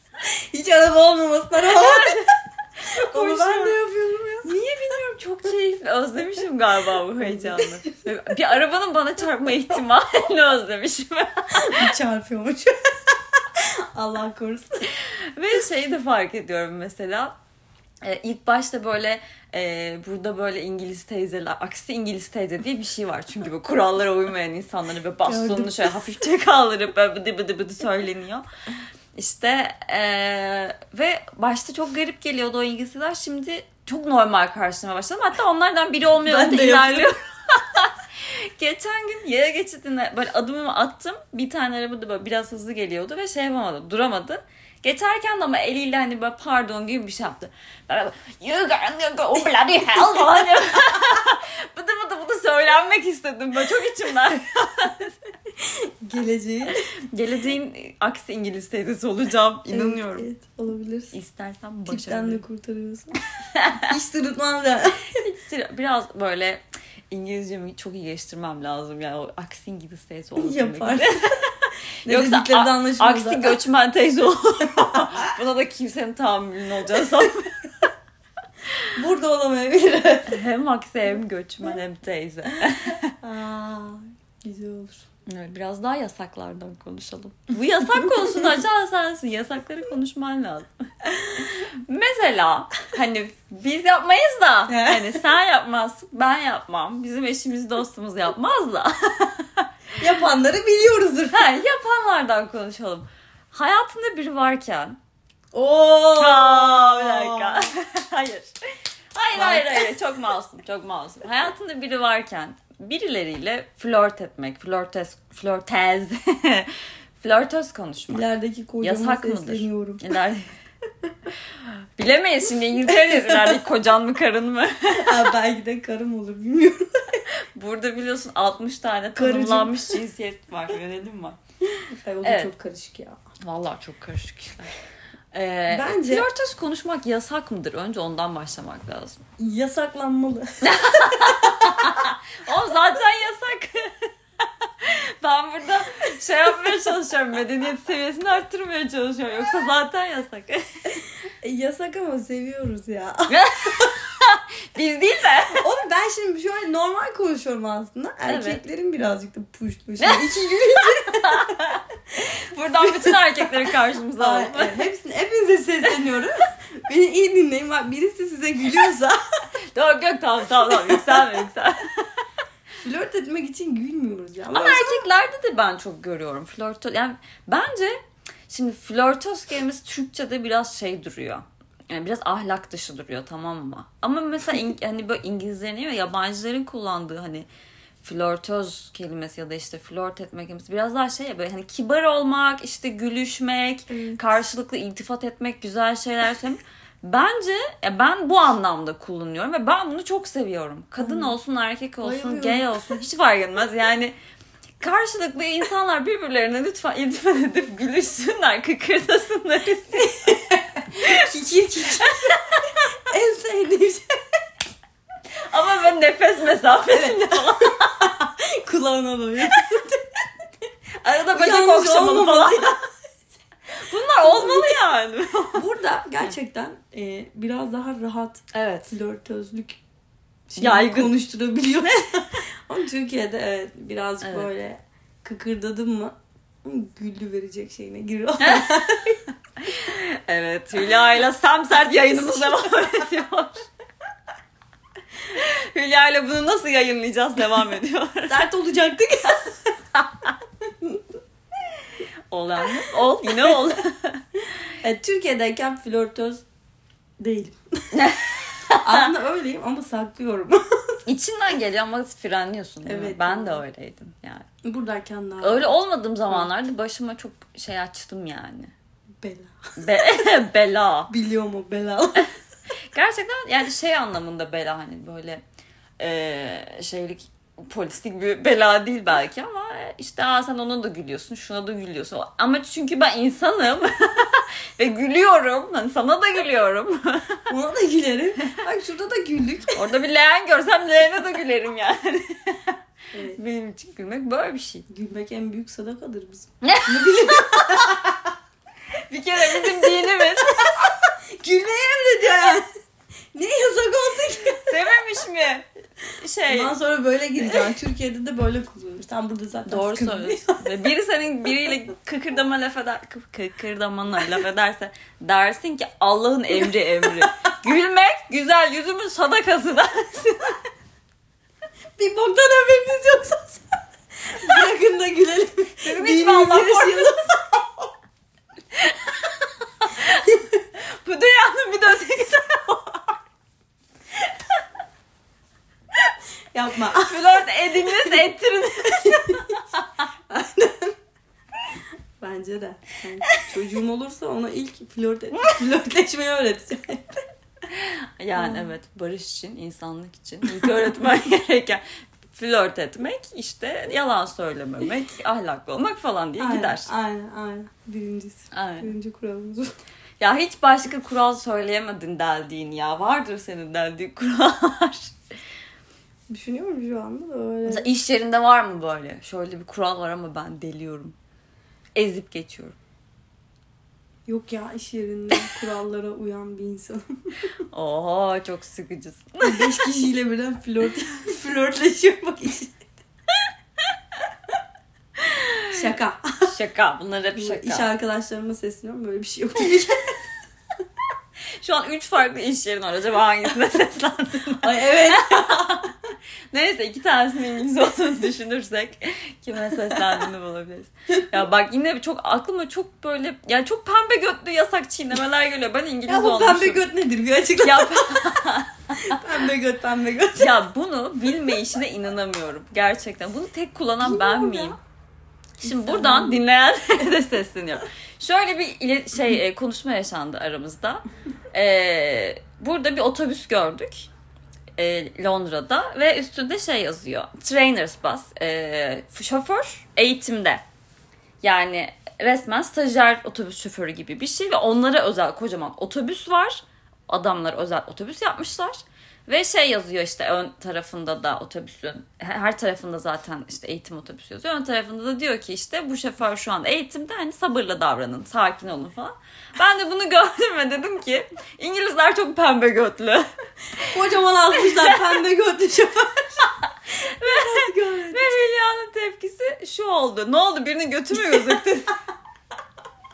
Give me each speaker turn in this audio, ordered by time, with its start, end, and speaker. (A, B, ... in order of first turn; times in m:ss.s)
0:00.3-0:02.3 A
0:01.6-0:03.8 B
0:03.1-0:04.5 A
0:04.4-0:11.9 B
0:07.2-0:07.8 A
0:11.5-0:14.9 A
0:14.9-0:17.3 B
0:18.0-0:28.4 B
0:25.2-0:26.0 A
0:29.2-0:55.1 B
0:36.2-0:37.1 A
0:55.6-0:56.9 A
0:57.1-1:00.3 B
0:59.7-1:01.1 A
1:01.1-1:02.4 B
1:01.8-1:03.2 A
1:03.5-1:03.9 B
1:03.8-1:05.1 A
1:05.2-1:11.5 B
1:10.4-1:11.4 A
1:12.0-1:13.6 A
1:12.0-1:17.7 B
1:18.9-1:20.4 A
1:20.3-1:23.1 B
1:23.2-1:25.0 A
1:25.3-1:39.6 B
1:34.7-1:35.2 A
1:40.0-1:41.6 A
1:41.3-1:45.0 B
1:45.5-1:47.7 A
1:46.2-1:48.5 B
1:49.1-1:58.2 B
1:49.3-1:49.9 A
1:58.1-2:00.0 A
1:58.8-2:00.5 B
2:01.6-2:05.3 B
2:02.9-2:03.6 A
2:05.0-2:07.2 A
2:07.5-2:11.4 B
2:09.1-2:10.0 A
2:11.8-2:13.2 A
2:12.2-2:12.5 B
2:13.4-2:14.7 B
2:15.3-2:19.2 B
2:15.7-2:16.3 A
2:19.4-2:21.9 A
2:20.6-2:30.6 B
2:31.4-2:33.9 A
2:33.3-2:35.6 B
2:35.5-2:41.5 A
2:38.3-2:38.6 B
2:41.1-2:44.8 B
2:42.8-2:43.5 A
2:44.2-2:49.2 A
2:49.7-2:51.9 B
2:52.8-2:55.0 A
2:54.5-3:07.5 B
3:08.0-3:24.1 B
3:13.9-3:14.3 A
3:21.0-3:21.3 A
3:22.0-3:22.8 A
3:24.8-3:30.4 B
3:30.4-3:32.4 A
3:31.0-3:31.2 B
3:32.0-3:32.5 B
3:33.1-3:34.1 A
3:35.5-3:38.1 B
3:36.8-3:40.2 A
3:41.0-3:42.8 B
3:41.3-3:42.8 A
3:43.7-3:45.6 B
3:44.2-3:44.8 A
3:45.5-3:49.8 A
3:48.5-3:48.9 B
3:50.5-3:59.2 A
3:50.6-3:51.1 B
3:54.2-3:54.5 B
3:58.4-3:58.8 B
3:59.6-4:03.6 B
4:05.2-4:08.4 B
4:08.3-4:09.7 A
4:12.3-4:14.2 B
4:14.8-4:16.4 A
4:17.2-4:17.9 A
4:17.9-4:18.9 B
4:18.8-4:20.6 A
4:21.0-4:24.4 B
4:22.8-4:23.6 A
4:24.6-4:25.8 A
4:25.4-4:28.7 B
4:29.2-4:30.3 A
4:29.8-4:31.1 B
4:31.1-4:32.3 A
4:32.9-4:35.4 B
4:36.0-4:47.4 B
4:47.5-4:49.8 A
4:49.7-4:52.8 B
4:53.1-4:53.4 A
4:53.3-4:54.8 B
4:54.9-4:58.3 A
4:56.6-4:57.8 B
4:59.0-5:00.9 B
4:59.6-5:02.6 A
5:03.3-5:04.8 A
5:04.7-5:06.7 B
5:06.5-5:10.7 A
5:09.7-5:20.6 B
5:22.0-5:23.8 A
5:24.3-5:27.9 A
5:25.8-5:27.1 B
5:28.8-5:29.1 B
5:29.8-5:33.1 B
5:36.5-5:38.3 A
5:36.9-5:39.8 B
5:38.8-5:39.4 A
5:40.3-5:41.0 A
5:42.2-5:47.2 A
5:47.7-5:56.9 B
5:48.3-5:48.7 A
5:56.4-5:59.7 A
5:58.5-5:58.9 B
6:00.2-6:05.1 B
6:06.3-6:07.9 A
6:07.7-6:11.1 B
6:12.0-6:12.8 B
6:14.3-6:17.0 A
6:17.7-6:19.7 B
6:19.4-6:22.7 A
6:25.2-6:25.6 B
6:25.7-6:26.5 A
6:26.4-6:27.9 B
6:27.3-6:30.1 A
6:31.6-6:35.9 B
6:34.6-6:35.8 A
6:36.5-6:46.8 B
6:46.0-6:48.5 A
6:47.6-6:49.2 B
6:49.0-6:50.6 A
6:50.4-6:54.8 B
6:54.0-6:54.8 A
6:55.6-7:04.1 B
6:55.6-6:56.4 A
7:04.8-7:10.6 B
7:11.4-7:33.2 B
7:33.8-7:36.4 A
7:34.6-7:35.0 B
7:36.9-7:41.9 B
7:37.2-7:38.4 A
7:41.2-7:41.6 A